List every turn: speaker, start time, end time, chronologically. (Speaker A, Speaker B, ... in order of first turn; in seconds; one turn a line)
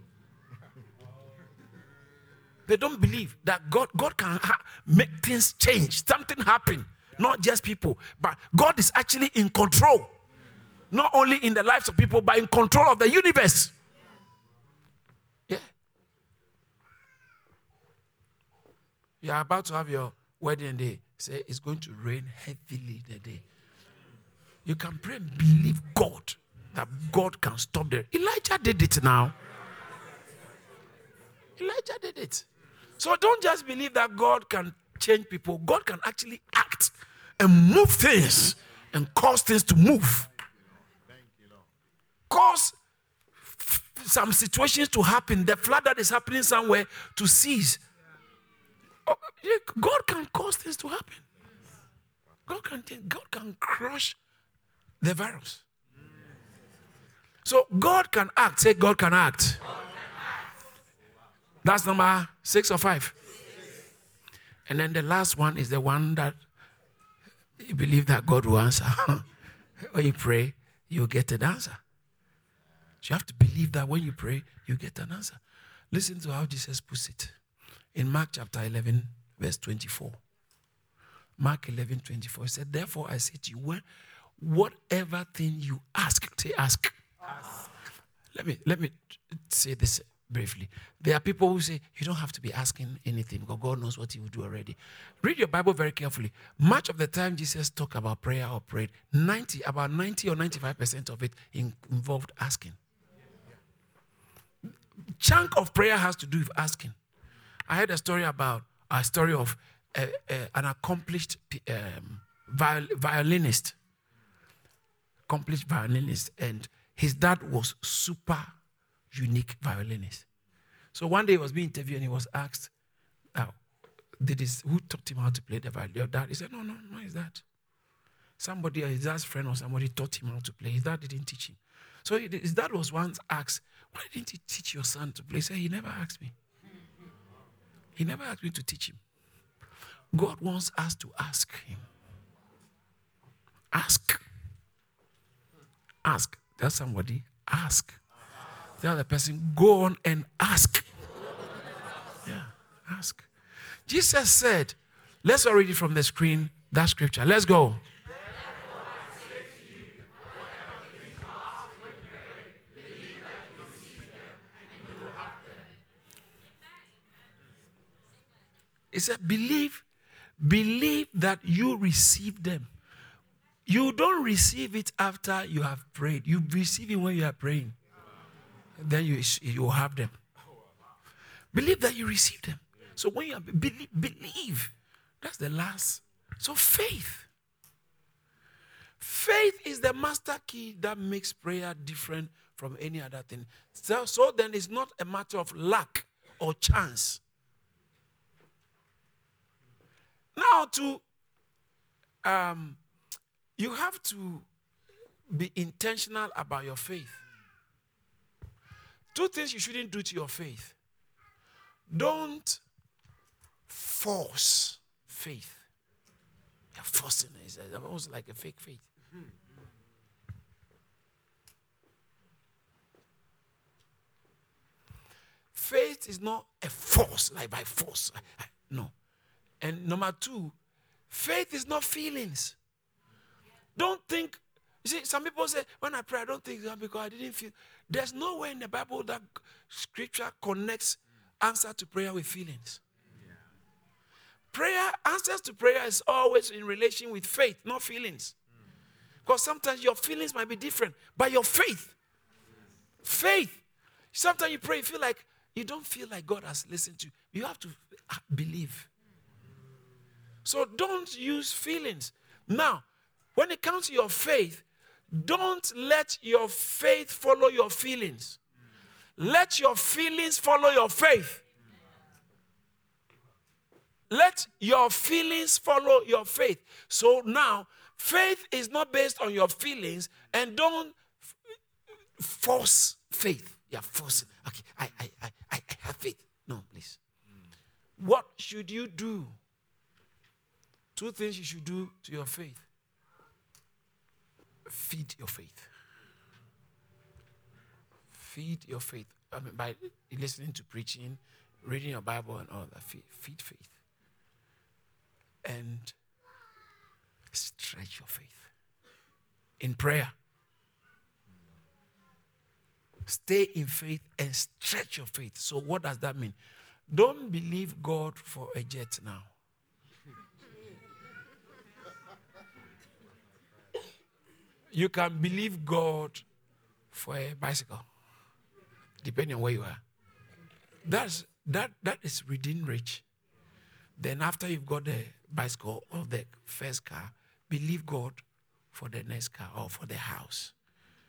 Speaker A: 2.7-10.1
Speaker A: 10.9-13.7
Speaker A: 19.2-23.4
Speaker A: 24.6-29.4
Speaker A: 31.6-32.5
Speaker A: 33.0-40.3
Speaker A: 42.3-42.8
Speaker A: 43.5-47.8
Speaker A: 49.1-51.2
Speaker A: 52.5-54.2
Speaker A: 55.0-55.6
Speaker A: 57.5-59.6
Speaker A: 61.6-63.1
Speaker A: 64.7-66.4
Speaker A: 67.6-69.2
Speaker A: 69.8-71.8
Speaker A: 73.0-75.4
Speaker A: 75.9-77.3
Speaker A: 78.0-80.2
Speaker A: 81.4-83.8
Speaker A: 84.4-87.0
Speaker A: 88.3-102.8
Speaker A: 105.2-107.0
Speaker A: 107.7-113.8
Speaker A: 115.3-118.5
Speaker A: 119.1-120.3
Speaker A: 120.9-122.7
Speaker A: 124.2-127.4
Speaker A: 128.4-136.3
Speaker A: 138.0-139.0
Speaker A: 140.1-141.8
Speaker A: 143.7-144.2
Speaker A: 146.0-148.0
Speaker A: 148.8-150.8
Speaker A: 152.2-153.3
Speaker A: 153.9-157.8
Speaker A: 168.9-169.8
Speaker A: 170.4-172.7
Speaker A: 173.7-177.8
Speaker A: 178.8-180.2
Speaker A: 181.5-187.3
Speaker A: 189.0-197.2
Speaker A: 200.3-201.0
Speaker A: 202.2-202.8
Speaker A: 203.6-204.5
Speaker A: 205.3-207.2
Speaker A: 209.1-210.8
Speaker A: 211.9-212.6
Speaker A: 213.7-215.7
Speaker A: 216.7-218.9
Speaker A: 225.5-228.9
Speaker A: 229.6-230.6
Speaker A: 231.1-232.6
Speaker A: 233.8-242.8
Speaker A: 244.5-248.4
Speaker A: 249.2-252.0
Speaker A: 253.0-258.9
Speaker A: 260.4-268.4
Speaker A: 269.2-271.4
Speaker A: 274.1-281.5
Speaker A: 282.2-287.0
Speaker A: 288.0-289.4
Speaker A: 290.9-292.7
Speaker A: 294.7-295.7
Speaker A: 298.1-303.8
Speaker A: 305.4-305.9
Speaker A: 307.3-308.5
Speaker A: 309.6-310.1
Speaker A: 313.1-316.4
Speaker A: 316.9-319.3
Speaker A: 324.7-326.2
Speaker A: 326.9-327.9
Speaker A: 329.0-329.8
Speaker A: 330.9-333.0
Speaker A: 334.0-340.5